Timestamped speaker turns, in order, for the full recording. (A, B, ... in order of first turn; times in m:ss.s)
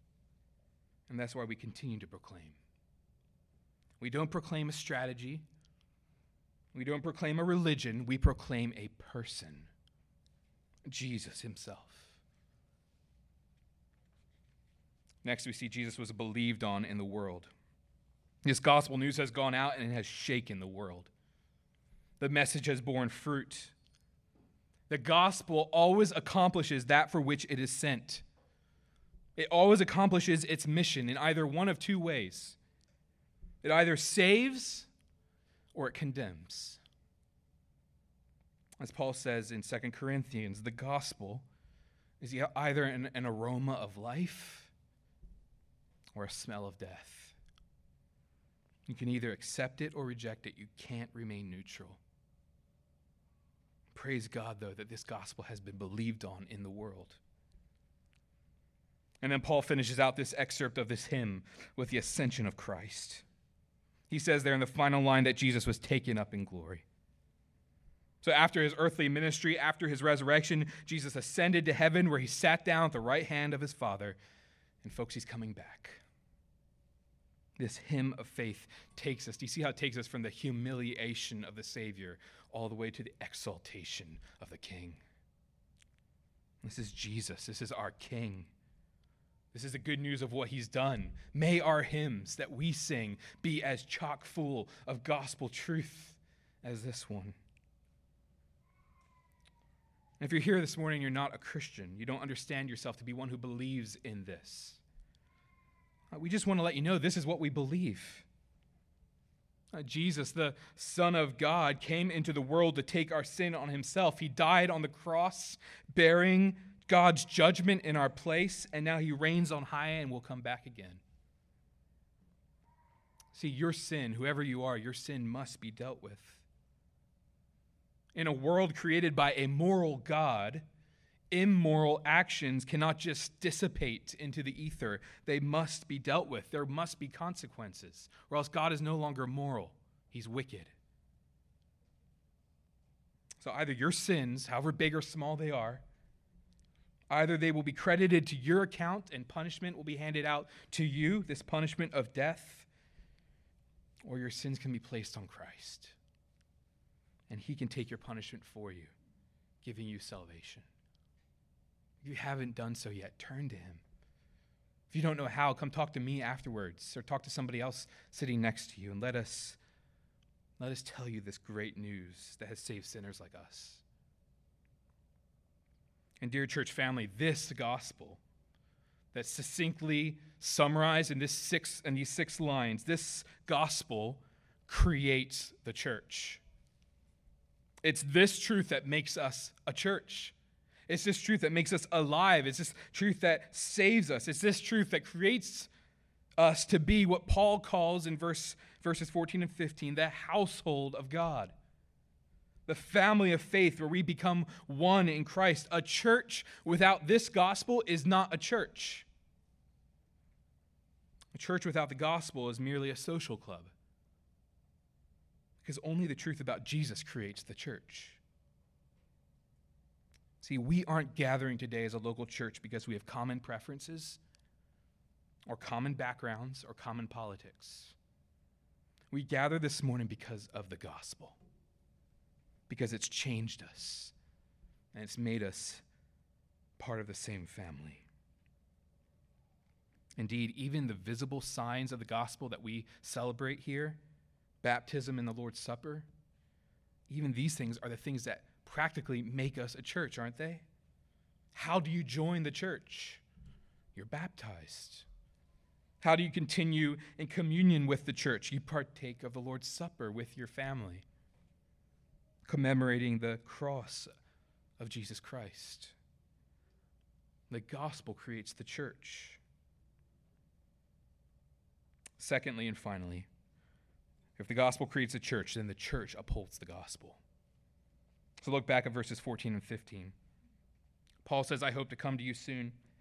0:01.1-0:02.6 A
0:04.0-0:05.4 A
0:06.7-0:09.7 A
0:10.9-0:12.2 A
0:15.2-0:17.5 A
0:18.4-0:21.1 A
0:22.2-0:23.7 A
0:24.9-0:28.2 A
0:29.4-0:32.6 A
0:33.6-0:34.9 A
0:35.7-0:36.8 A
0:38.8-0:41.4 A
0:42.2-0:44.7 A
0:46.1-0:47.4 A
0:48.8-0:52.0 A
0:53.9-0:57.2 A
0:59.2-1:03.2 A
1:04.1-1:06.8 A
1:08.2-1:14.2 A
1:14.8-1:16.0 A
1:17.6-1:25.0 A
1:26.6-1:28.5 A
1:29.5-1:37.4 A
1:40.2-1:44.8 A
1:46.1-1:48.3 A
1:49.7-2:01.0 A
2:03.3-2:06.4 A
2:08.1-2:10.6 A
2:11.3-2:20.7 A
2:23.4-2:25.8 A
2:27.1-2:32.7 A
2:34.0-2:36.0 A
2:37.3-2:38.9 A
2:39.6-2:40.7 A
2:42.0-2:43.8 A
2:44.9-2:49.6 A
2:50.6-2:53.8 A
2:56.2-2:58.2 A
2:59.1-3:06.4 A
3:07.8-3:10.3 A
3:10.9-3:15.7 A
3:16.4-3:21.5 A
3:22.7-3:29.1 A
3:31.3-3:33.7 A
3:35.6-3:38.2 A
3:40.4-3:44.2 A
3:45.5-3:48.0 A
3:49.1-3:51.4 A
3:52.7-3:54.1 A
3:54.9-3:55.8 A
3:56.8-3:58.0 A
4:00.2-4:04.0 A
4:04.6-4:06.1 A
4:07.1-4:10.6 A
4:11.5-4:13.2 A
4:13.9-4:15.1 A
4:16.0-4:21.0 A
4:22.4-4:24.1 A
4:24.8-4:25.9 A
4:27.5-4:29.4 A
4:32.2-4:33.3 A
4:34.4-4:37.2 A
4:38.4-4:40.1 A
4:41.2-4:42.8 A